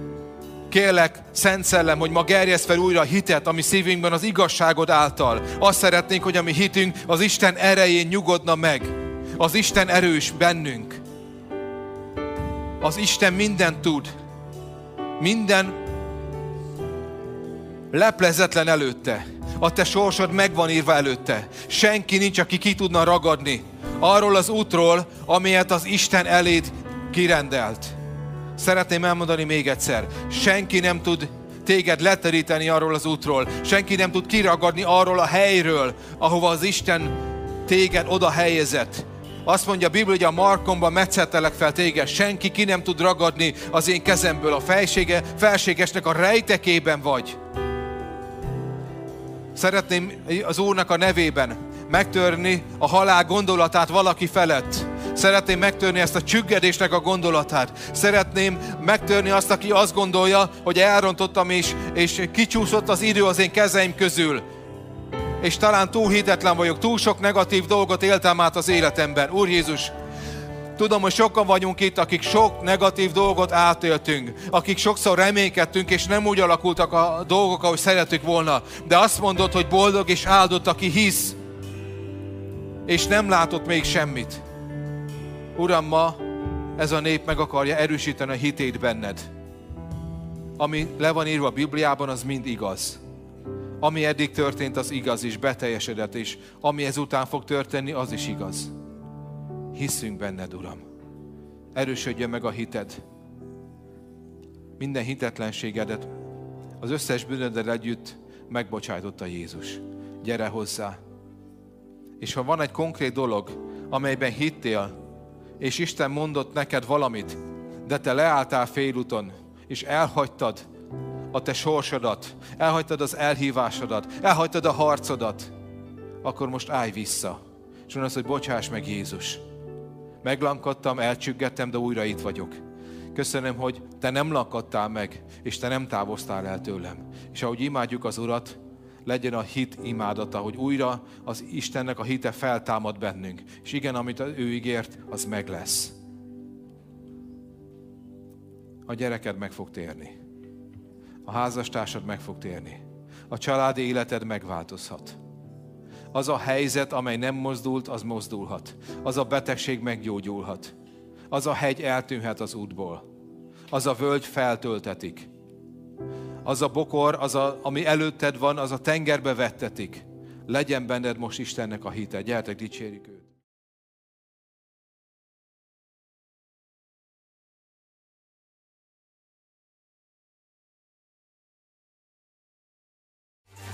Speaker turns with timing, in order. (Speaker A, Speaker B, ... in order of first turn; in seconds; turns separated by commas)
Speaker A: 0.7-11.0, Speaker A: 12.8-14.1, Speaker A: 15.2-15.8, Speaker A: 17.9-27.9, Speaker A: 28.6-37.1, Speaker A: 37.6-47.4, Speaker A: 49.5-64.4, Speaker A: 65.4-69.9, Speaker A: 70.8-81.4, Speaker A: 82.9-84.4, Speaker A: 85.5-86.2, Speaker A: 86.8-89.3, Speaker A: 90.6-93.0, Speaker A: 93.8-98.7, Speaker A: 99.7-100.8, Speaker A: 101.7-103.0, Speaker A: 104.8-106.1, Speaker A: 106.8-111.0, Speaker A: 112.2-114.9, Speaker A: 115.6-120.6, Speaker A: 121.3-125.5, Speaker A: 126.2-127.4, Speaker A: 127.9-129.4, Speaker A: 130.2-132.6, Speaker A: 133.1-145.9, Speaker A: 148.8-150.1, Speaker A: 151.2-155.2, Speaker A: 156.1-160.7, Speaker A: 161.3-163.0, Speaker A: 163.7-165.3, Speaker A: 166.4-173.3